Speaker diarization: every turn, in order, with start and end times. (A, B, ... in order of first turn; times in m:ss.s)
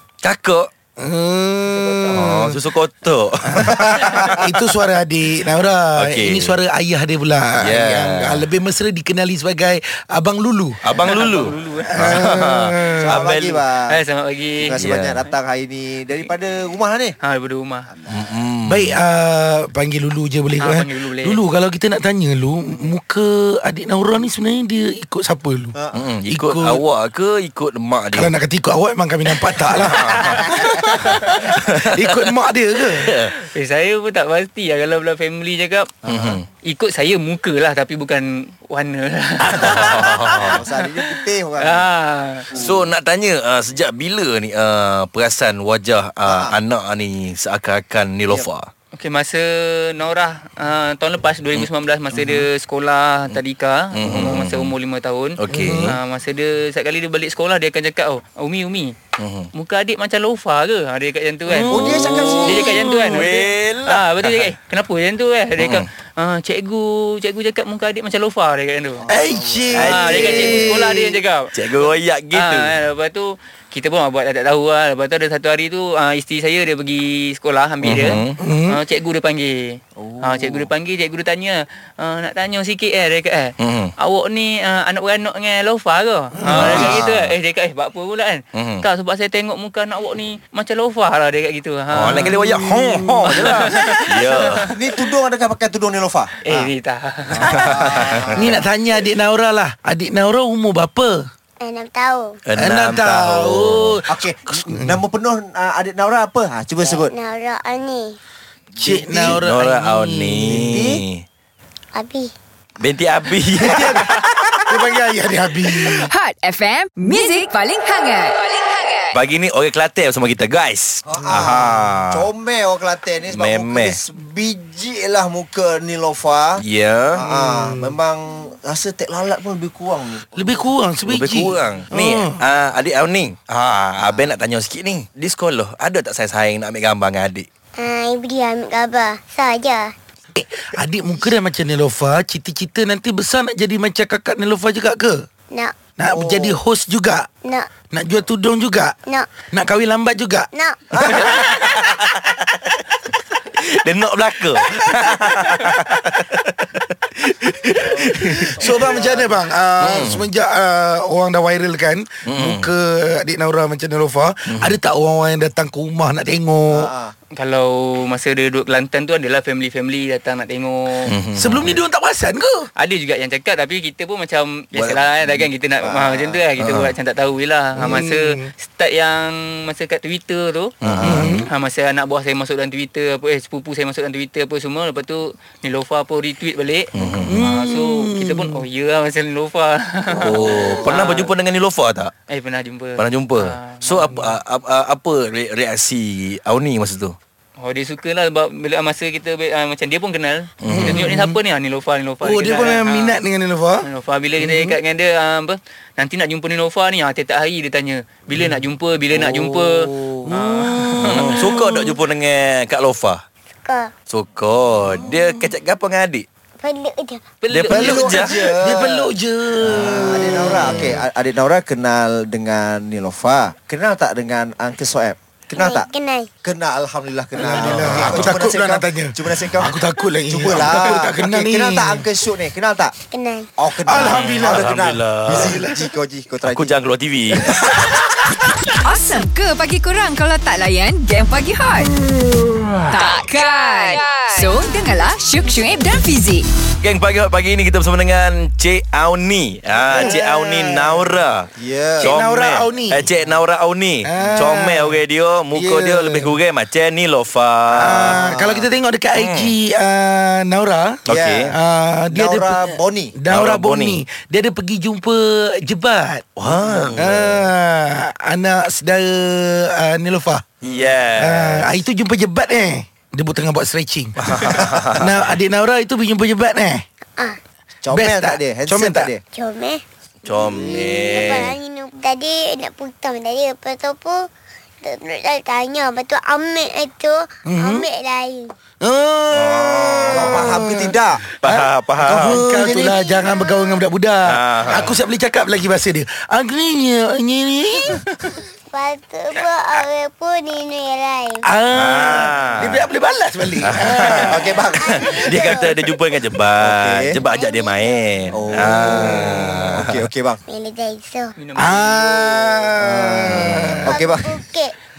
0:00.2-0:00.7 A
0:01.0-0:02.6 B
0:01.7-0:02.4 C
0:02.1-0:04.5 A
0:03.5-0:10.8 B
0:03.8-0:04.2 D
0:06.0-0:06.6 A
0:07.6-0:08.5 A
0:10.8-0:13.6 A
0:11.0-0:12.1 C
0:11.8-0:13.1 B
0:13.0-0:14.0 D
0:13.9-0:14.8 C
0:14.6-0:17.2 D
0:14.8-0:15.2 A
0:17.2-0:17.9 C
0:17.9-0:18.3 D
0:18.1-0:19.0 A
0:18.7-0:25.8 B
0:20.6-0:21.4 C
0:25.8-0:26.0 D
0:25.9-0:28.3 A
0:26.3-0:26.8 B
0:28.1-0:33.1 B
0:29.5-0:30.4 A
0:31.0-0:32.2 A
0:32.9-0:33.4 A
0:33.3-0:35.9 C
0:36.0-0:36.4 D
0:36.0-0:36.5 A
0:36.6-0:40.9 C
0:39.5-0:40.6 A
0:40.5-0:41.9 D
0:41.6-0:42.5 C
0:42.5-0:42.9 D
0:42.5-0:48.7 A
0:46.2-0:46.6 D
0:49.0-0:59.0 C
0:52.1-0:52.5 D
0:53.9-0:54.7 A
0:55.4-0:56.0 A
0:55.5-0:56.0 B
0:59.2-0:59.5 A
0:59.5-1:09.1 C
1:01.5-1:03.2 B
1:01.7-1:02.7 D
1:01.8-1:04.4 A
1:05.6-1:05.8 A
1:09.0-1:11.2 D
1:09.1-1:10.7 B
1:09.7-1:10.3 A
1:09.7-1:11.5 C
1:11.5-1:12.7 A
1:12.3-1:32.4 C
1:17.8-1:18.4 A
1:18.4-1:18.8 B
1:20.0-1:20.7 D
1:23.6-1:23.9 A
1:26.4-1:27.0 B
1:26.4-1:27.4 A
1:28.6-1:28.8 A
1:31.9-1:34.7 A
1:32.4-1:32.9 B
1:33.2-1:33.7 D
1:33.2-1:34.7 C
1:34.6-1:36.7 D
1:36.4-1:38.0 C
1:37.4-1:38.6 A
1:37.4-1:38.6 D
1:38.3-1:41.2 B
1:41.6-1:42.4 E
1:42.5-1:44.0 A
1:42.6-1:45.0 B
1:44.1-1:47.1 D
1:46.9-1:48.2 E
1:48.8-1:50.8 B
1:48.8-1:51.2 A
1:50.5-1:51.0 D
1:52.0-1:52.3 E
1:52.8-1:54.3 A
1:53.6-1:54.1 B
1:54.7-1:56.1 B
1:56.0-1:59.1 F
1:59.1-2:02.3 A
2:01.1-2:06.6 D
2:03.3-2:04.0 A
2:06.6-2:07.2 A
2:07.2-2:10.7 D
2:07.4-2:07.9 B
2:10.4-2:12.4 B
2:11.1-2:17.5 A
2:14.0-2:14.3 D
2:17.8-2:19.9 E
2:20.4-2:25.2 B
2:26.0-2:27.3 B
2:26.1-2:26.6 D
2:27.4-2:27.7 E
2:27.9-2:29.0 B
2:29.1-2:29.3 E
2:29.5-2:30.5 B
2:30.5-2:30.8 E
2:30.9-2:31.5 D
2:31.1-2:31.6 B
2:31.5-2:32.6 A
2:33.6-2:38.6 A
2:37.8-2:39.4 D
2:38.3-2:46.9 B
2:39.8-2:40.2 A
2:42.3-2:42.7 A
2:44.5-2:44.8 A
2:46.7-2:47.1 D
2:47.4-2:51.2 C
2:51.1-2:51.8 A
2:51.4-2:52.7 B
2:52.8-3:00.7 C
2:54.7-2:55.4 A
2:55.8-2:56.4 D
2:56.6-2:56.9 A
2:57.8-2:58.5 B
3:00.8-3:01.4 A
3:00.9-3:01.3 D
3:01.0-3:01.5 B
3:01.4-3:11.3 C
3:06.9-3:07.4 A
3:07.2-3:08.6 B
3:10.2-3:12.1 A
3:10.3-3:11.0 D
3:12.3-3:13.9 C
3:13.0-3:17.2 A
3:17.6-3:23.2 C
3:20.6-3:21.0 A
3:20.7-3:21.4 B
3:22.2-3:23.8 B
3:23.8-3:31.4 C
3:24.4-3:24.8 B
3:29.2-3:30.2 D
3:30.3-3:32.0 B
3:31.0-3:33.2 A
3:33.6-3:33.9 E
3:34.1-3:36.3 A
3:36.6-3:37.2 E
3:37.4-3:38.3 C
3:37.5-3:38.4 A
3:37.7-3:39.1 D
3:37.8-3:41.0 B
3:39.7-3:45.9 D
3:45.6-3:46.3 E
3:46.4-3:53.0 D
3:47.4-3:52.0 B
3:47.8-3:48.4 A
3:53.1-3:53.5 E
3:53.6-3:56.8 D
3:53.8-3:54.7 B
3:53.9-3:55.6 A
3:55.3-3:55.8 B
3:56.4-3:57.9 A
3:57.5-3:58.5 B
3:58.8-4:02.0 F
4:02.9-4:06.5 F
4:06.8-4:11.5 A
4:09.9-4:11.0 B
4:11.6-4:12.2 D
4:12.0-4:13.1 B
4:12.0-4:18.2 A
4:14.0-4:15.0 B
4:15.5-4:16.4 B
4:17.7-4:26.2 B
4:18.0-4:18.7 D
4:19.2-4:19.5 A
4:21.1-4:21.5 A
4:21.1-4:21.5 D
4:22.1-4:23.1 D
4:23.3-4:24.0 A
4:26.4-4:27.4 A
4:27.0-4:30.4 B
4:30.6-4:31.8 A
4:31.2-4:36.8 B
4:34.2-4:35.2 A
4:37.8-4:39.2 D
4:37.9-4:39.1 B
4:39.3-4:39.8 E
4:40.2-4:41.5 A
4:40.4-4:44.2 E
4:44.8-4:48.5 E
4:47.5-4:47.9 B
4:48.8-4:58.0 B
4:49.3-4:50.4 A
4:50.1-4:51.2 D
4:51.4-4:52.4 A
4:52.0-4:53.0 D
4:52.9-4:53.8 E
4:54.3-4:55.0 A
4:58.7-5:01.5 E
5:01.4-5:05.2 B
5:01.7-5:02.9 A
5:03.6-5:10.0 A
5:04.3-5:05.0 D
5:04.7-5:06.0 E
5:06.6-5:07.2 D
5:07.2-5:08.9 E
5:08.3-5:10.4 D
5:08.9-5:09.7 B
5:10.5-5:11.4 E
5:11.4-5:12.6 C
5:11.6-5:13.9 B
5:12.8-5:14.3 D
5:13.3-5:13.8 A
5:13.8-5:14.7 E